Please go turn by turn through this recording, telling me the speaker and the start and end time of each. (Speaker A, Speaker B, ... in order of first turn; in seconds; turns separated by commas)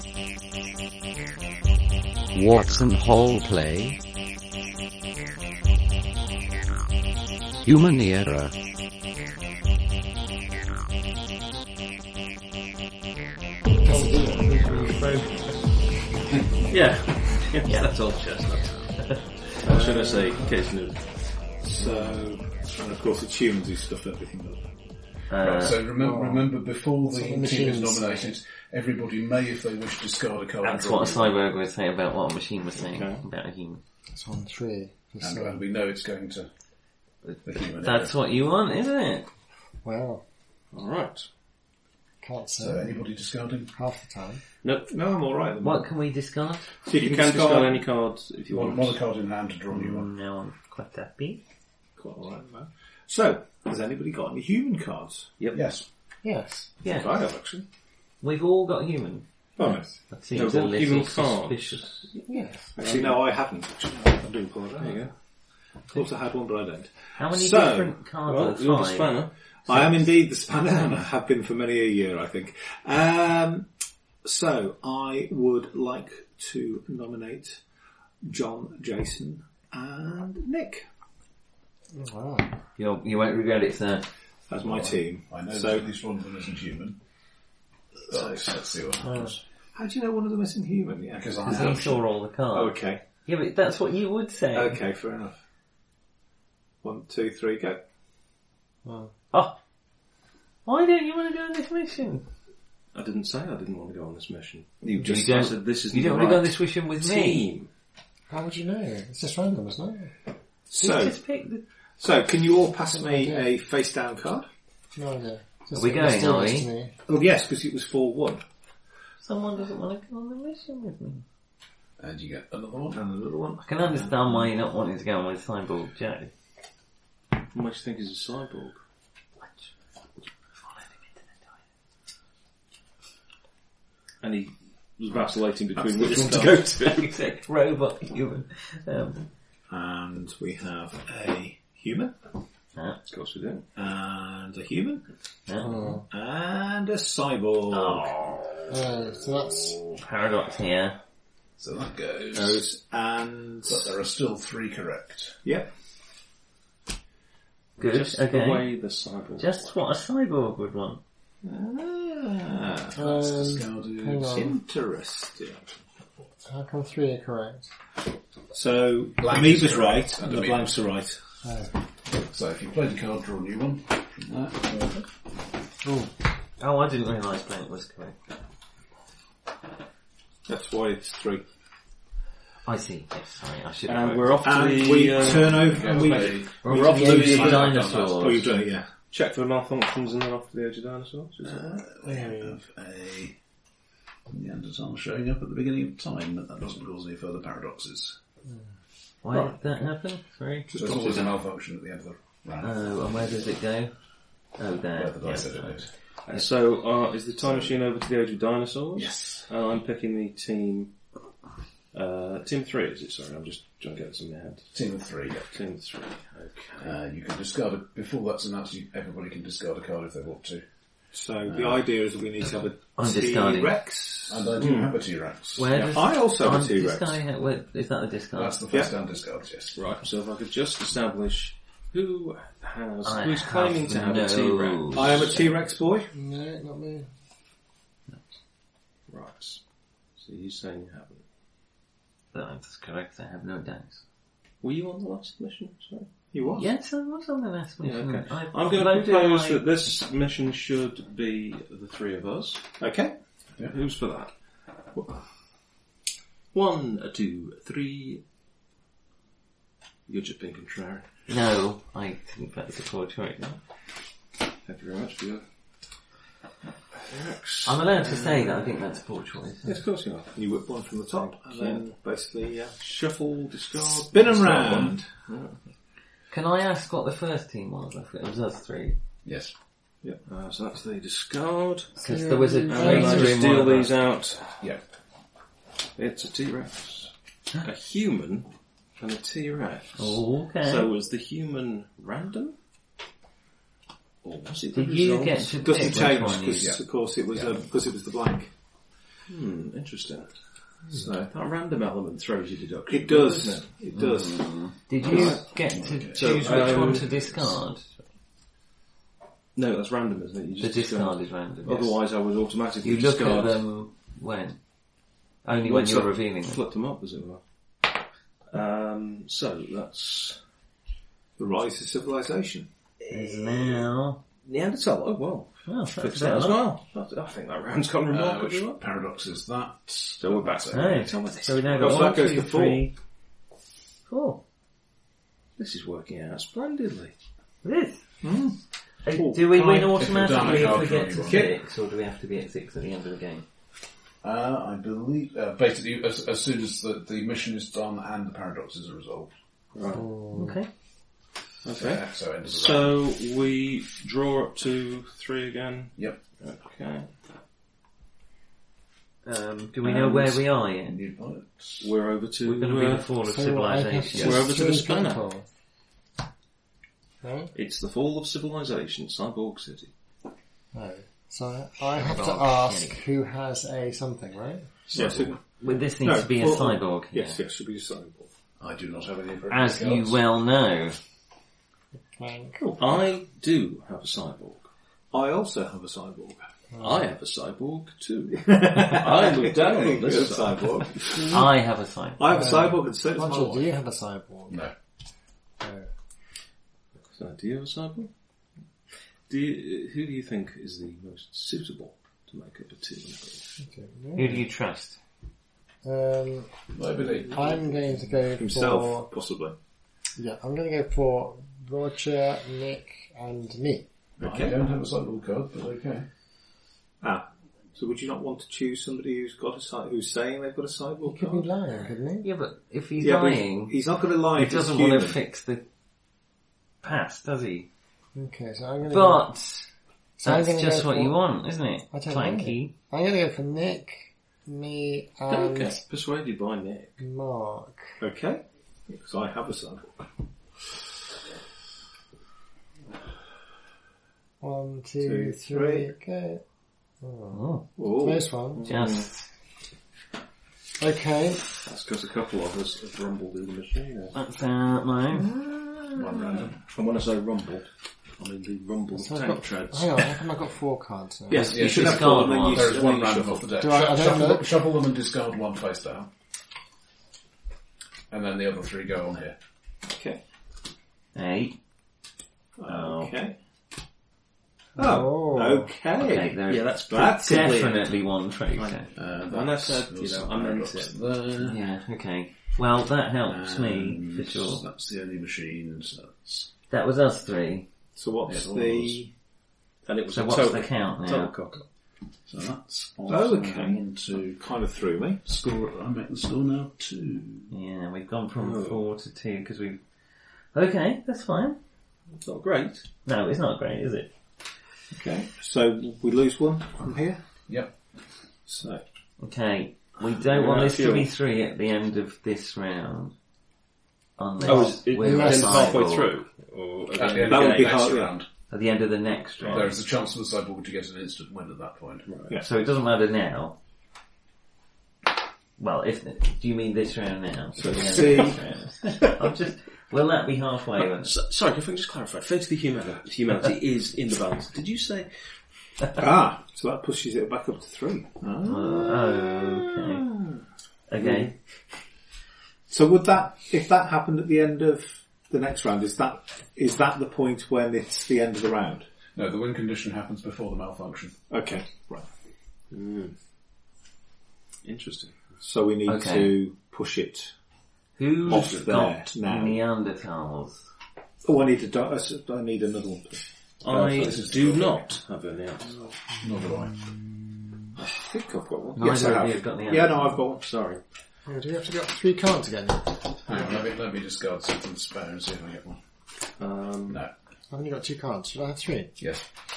Speaker A: 2.3-4.0, Speaker A: 7.6-8.5, Speaker B: 13.8-14.7, Speaker C: 13.9-15.7, Speaker D: 16.3-16.7, Speaker E: 16.7-21.1, Speaker C: 17.6-17.9, Speaker F: 21.6-24.7, Speaker C: 25.3-25.8, Speaker D: 25.4-31.4, Speaker B: 26.0-26.5, Speaker B: 27.1-28.3, Speaker C: 30.6-33.8, Speaker E: 32.8-33.2, Speaker B: 34.1-35.6, Speaker D: 35.2-36.5, Speaker C: 37.2-39.3, Speaker D: 37.4-38.1, Speaker B: 39.8-40.2, Speaker E: 40.7-41.3, Speaker B: 42.2-43.0, Speaker D: 42.6-43.7, Speaker B: 43.7-44.4, Speaker E: 44.6-44.9, Speaker F: 44.9-45.9, Speaker C: 45.6-46.7, Speaker F: 46.9-47.8, Speaker E: 46.9-49.0, Speaker D: 48.5-50.1, Speaker C: 49.7-51.4, Speaker F: 52.0-55.3, Speaker D: 55.5-55.9, Speaker B: 56.2-56.7, Speaker C: 56.8-57.2, Speaker E: 56.9-57.6, Speaker C: 58.2-62.5, Speaker F: 59.6-59.9, Speaker E: 60.3-61.9, Speaker B: 62.3-62.5, Speaker F: 62.8-65.1, Speaker E: 62.8-63.2, Speaker E: 64.8-65.1, Speaker F: 65.9-67.9, Speaker C: 67.2-69.2, Speaker E: 68.3-69.3, Speaker F: 69.7-73.7, Speaker F: 74.2-77.6, Speaker F: 78.2-80.8, Speaker B: 81.9-82.5, Speaker C: 82.8-84.1, Speaker F: 84.5-85.9, Speaker D: 84.6-87.0, Speaker D: 88.1-89.4, Speaker F: 88.1-88.5, Speaker B: 89.0-89.3, Speaker F: 89.8-91.9, Speaker D: 91.1-92.0, Speaker C: 91.5-94.8, Speaker F: 92.5-93.0, Speaker F: 94.5-95.4, Speaker F: 96.8-97.8, Speaker B: 98.8-99.1, Speaker C: 100.7-102.2, Speaker E: 102.9-107.7, Speaker C: 105.0-107.5, Speaker B: 108.3-110.1, Speaker F: 110.7-111.2, Speaker C: 110.8-111.6, Speaker F: 112.0-114.5, Speaker B: 112.9-113.5, Speaker B: 115.0-116.9, Speaker C: 115.7-116.7, Speaker F: 117.1-118.4, Speaker C: 119.2-121.2, Speaker D: 122.0-123.0, Speaker F: 122.9-123.6, Speaker C: 123.6-126.3, Speaker D: 123.8-124.1, Speaker E: 127.5-128.8, Speaker C: 129.4-129.7, Speaker C: 130.6-131.4, Speaker E: 134.2-137.2, Speaker F: 135.8-136.5, Speaker C: 136.2-139.2, Speaker F: 139.7-142.2, Speaker E: 143.1-143.7, Speaker F: 143.8-145.0, Speaker C: 145.5-146.0, Speaker B: 145.6-146.0, Speaker F: 146.1-148.2, Speaker C: 147.7-148.7, Speaker B: 148.7-149.8, Speaker C: 150.0-151.0, Speaker D: 151.6-152.6, Speaker F: 152.3-153.9, Speaker D: 153.7-155.4, Speaker C: 157.8-158.7, Speaker E: 157.8-159.7, Speaker C: 159.4-161.0, Speaker F: 161.4-163.1, Speaker B: 163.0-164.6, Speaker D: 163.0-164.6, Speaker F: 164.2-165.7, Speaker B: 166.5-167.7, Speaker F: 168.5-171.2, Speaker D: 169.2-170.8, Speaker B: 171.4-171.7, Speaker D: 172.1-174.9, Speaker B: 175.8-176.1, Speaker C: 176.6-178.2, Speaker F: 180.5-181.4, Speaker C: 182.7-184.7, Speaker E: 183.9-186.3, Speaker F: 184.4-188.9, Speaker D: 184.9-188.4, Speaker C: 186.6-188.5, Speaker E: 189.1-191.8, Speaker D: 191.4-193.4, Speaker B: 192.1-192.6, Speaker D: 194.3-198.2, Speaker C: 199.2-200.7, Speaker F: 200.7-201.3, Speaker D: 200.8-203.4, Speaker C: 202.6-203.9, Speaker C: 204.6-205.8, Speaker D: 204.9-205.9, Speaker E: 206.2-210.9, Speaker D: 207.4-207.7, Speaker D: 209.0-209.5, Speaker E: 211.9-214.7, Speaker D: 214.7-215.5, Speaker E: 215.5-217.0, Speaker D: 216.8-220.6, Speaker F: 221.1-224.8, Speaker D: 221.4-221.9, Speaker C: 223.0-223.8, Speaker D: 224.3-225.9, Speaker E: 224.6-224.9, Speaker C: 225.6-228.7, Speaker F: 225.7-227.2, Speaker D: 228.3-229.8, Speaker E: 229.8-235.4, Speaker C: 233.0-235.6, Speaker F: 234.9-236.1, Speaker B: 236.1-237.1, Speaker E: 239.1-239.6, Speaker E: 240.2-241.2, Speaker C: 242.3-244.0, Speaker E: 244.6-246.1, Speaker F: 246.3-246.7, Speaker C: 246.5-249.6, Speaker E: 247.8-252.6, Speaker F: 252.8-253.2, Speaker E: 253.6-254.3, Speaker E: 256.5-258.2, Speaker E: 260.1-261.1, Speaker C: 261.3-263.6, Speaker E: 264.6-265.4, Speaker E: 266.9-268.8, Speaker C: 267.6-269.8, Speaker E: 269.6-270.4, Speaker F: 270.3-272.8, Speaker E: 271.1-271.8, Speaker E: 272.8-275.6, Speaker F: 274.1-275.0, Speaker D: 274.4-274.9, Speaker C: 276.3-279.0, Speaker D: 279.2-279.5, Speaker E: 280.2-282.0, Speaker B: 282.0-283.3, Speaker C: 282.0-283.9, Speaker E: 282.7-284.6, Speaker E: 285.9-287.1, Speaker E: 287.6-292.6, Speaker C: 290.0-290.9, Speaker E: 294.2-296.1, Speaker C: 294.7-296.8, Speaker F: 295.6-298.5, Speaker D: 296.3-296.8, Speaker D: 297.3-297.6, Speaker E: 299.3-300.3, Speaker E: 300.9-303.7, Speaker F: 302.9-304.5, Speaker C: 303.9-307.9, Speaker E: 305.0-305.4, Speaker D: 305.1-307.3, Speaker E: 306.1-307.5, Speaker E: 309.5-313.6, Speaker C: 310.6-312.0, Speaker C: 312.8-314.6, Speaker C: 315.4-316.6, Speaker E: 315.6-317.4, Speaker E: 318.5-320.4, Speaker F: 321.4-322.7, Speaker E: 323.1-323.8, Speaker C: 323.1-324.2, Speaker E: 324.4-328.8, Speaker C: 325.6-326.7, Speaker D: 328.1-331.1, Speaker E: 330.2-332.2, Speaker C: 330.7-332.9, Speaker F: 331.8-332.8, Speaker C: 334.1-334.4, Speaker E: 335.6-337.1, Speaker C: 337.6-338.0, Speaker F: 338.2-338.6, Speaker C: 339.0-343.4, Speaker F: 339.1-341.5, Speaker D: 339.7-341.5, Speaker D: 344.2-349.3, Speaker E: 349.7-350.0, Speaker B: 349.9-350.6, Speaker C: 350.3-350.7, Speaker E: 351.6-357.1, Speaker D: 351.8-352.9, Speaker C: 359.2-361.0, Speaker E: 359.8-360.4, Speaker D: 360.8-361.9, Speaker E: 361.8-363.1, Speaker C: 362.4-364.6, Speaker B: 363.2-365.4, Speaker E: 364.1-365.3, Speaker B: 367.2-367.5, Speaker E: 367.5-369.9, Speaker B: 370.7-374.7, Speaker C: 371.9-373.0, Speaker E: 374.9-375.3, Speaker F: 374.9-375.4, Speaker C: 375.6-377.4, Speaker F: 376.0-378.3, Speaker D: 378.6-380.2, Speaker C: 379.5-381.0, Speaker B: 382.2-382.6, Speaker F: 382.6-383.0, Speaker E: 382.8-384.6, Speaker F: 385.1-386.5, Speaker B: 386.7-387.0, Speaker E: 386.8-391.0, Speaker F: 388.3-391.5, Speaker C: 391.2-392.6, Speaker F: 392.2-393.7, Speaker B: 392.3-394.7, Speaker B: 395.6-395.9, Speaker E: 397.1-398.1, Speaker E: 399.3-403.5, Speaker B: 403.6-404.4, Speaker C: 404.1-405.0, Speaker B: 405.8-406.5, Speaker D: 406.7-407.6, Speaker B: 407.2-409.1, Speaker F: 408.3-409.5, Speaker B: 410.1-413.8, Speaker D: 414.2-416.1, Speaker F: 414.2-414.6, Speaker F: 417.0-421.5, Speaker B: 421.0-422.3, Speaker C: 422.2-425.6, Speaker F: 423.0-425.2, Speaker C: 426.8-427.7, Speaker B: 428.1-429.3, Speaker C: 428.9-429.7, Speaker B: 430.2-431.2, Speaker C: 430.2-432.7, Speaker B: 431.9-435.8, Speaker E: 435.3-437.0, Speaker B: 437.0-438.0, Speaker F: 438.0-440.0, Speaker B: 444.4-446.4, Speaker F: 445.0-445.9, Speaker B: 447.0-448.7, Speaker C: 447.3-447.7, Speaker F: 447.8-448.9, Speaker E: 448.6-449.0, Speaker C: 448.7-449.2, Speaker B: 450.8-451.4, Speaker E: 451.6-454.1, Speaker C: 454.1-455.5, Speaker D: 455.9-456.5, Speaker E: 456.6-460.2, Speaker B: 458.9-461.5, Speaker F: 461.3-463.3, Speaker C: 461.3-462.8, Speaker D: 461.5-466.1, Speaker E: 462.3-463.4, Speaker B: 463.6-464.5, Speaker F: 463.8-464.3, Speaker D: 468.1-469.4, Speaker F: 469.8-470.2, Speaker C: 471.1-471.6, Speaker F: 472.6-473.4, Speaker C: 472.6-473.1, Speaker B: 474.8-475.7, Speaker F: 474.8-476.4, Speaker C: 476.0-478.9, Speaker E: 476.5-477.9, Speaker F: 476.9-477.5, Speaker E: 478.5-481.0, Speaker D: 478.9-481.6, Speaker C: 481.4-484.6, Speaker D: 483.3-486.5, Speaker C: 486.7-487.7, Speaker F: 487.9-489.1, Speaker D: 488.2-489.0, Speaker E: 489.9-491.6, Speaker C: 490.1-491.3, Speaker D: 492.2-494.4, Speaker F: 493.1-495.2, Speaker D: 495.2-497.5, Speaker C: 497.5-499.8, Speaker E: 498.4-498.8, Speaker C: 500.5-501.6, Speaker E: 502.2-502.9, Speaker C: 503.0-504.1, Speaker F: 504.9-507.2, Speaker F: 508.4-508.8, Speaker C: 509.2-513.1, Speaker E: 510.2-511.1, Speaker C: 514.2-516.2, Speaker B: 514.4-515.8, Speaker E: 514.4-517.8, Speaker D: 516.9-518.3, Speaker C: 517.2-517.8, Speaker F: 517.2-518.1, Speaker C: 518.5-519.8, Speaker E: 519.4-519.7, Speaker D: 519.5-522.1, Speaker E: 522.1-522.4, Speaker C: 522.4-523.5, Speaker C: 525.6-531.1, Speaker F: 527.6-528.4, Speaker E: 530.8-535.1, Speaker F: 535.9-540.2, Speaker C: 538.4-540.0, Speaker C: 540.9-541.3, Speaker E: 541.0-541.3, Speaker F: 542.7-548.9, Speaker D: 549.1-551.1, Speaker F: 551.3-552.1, Speaker E: 552.7-553.1, Speaker E: 554.6-555.1, Speaker F: 555.4-557.3, Speaker C: 555.9-556.4, Speaker C: 558.0-560.6, Speaker F: 558.2-559.6, Speaker E: 558.3-558.6, Speaker F: 561.2-564.2, Speaker E: 563.6-565.8, Speaker D: 563.7-564.9, Speaker D: 566.2-566.7, Speaker F: 567.8-570.4, Speaker C: 568.8-570.3, Speaker E: 570.4-570.8, Speaker B: 571.3-573.3, Speaker D: 573.3-575.8, Speaker E: 576.4-577.0, Speaker B: 577.5-578.9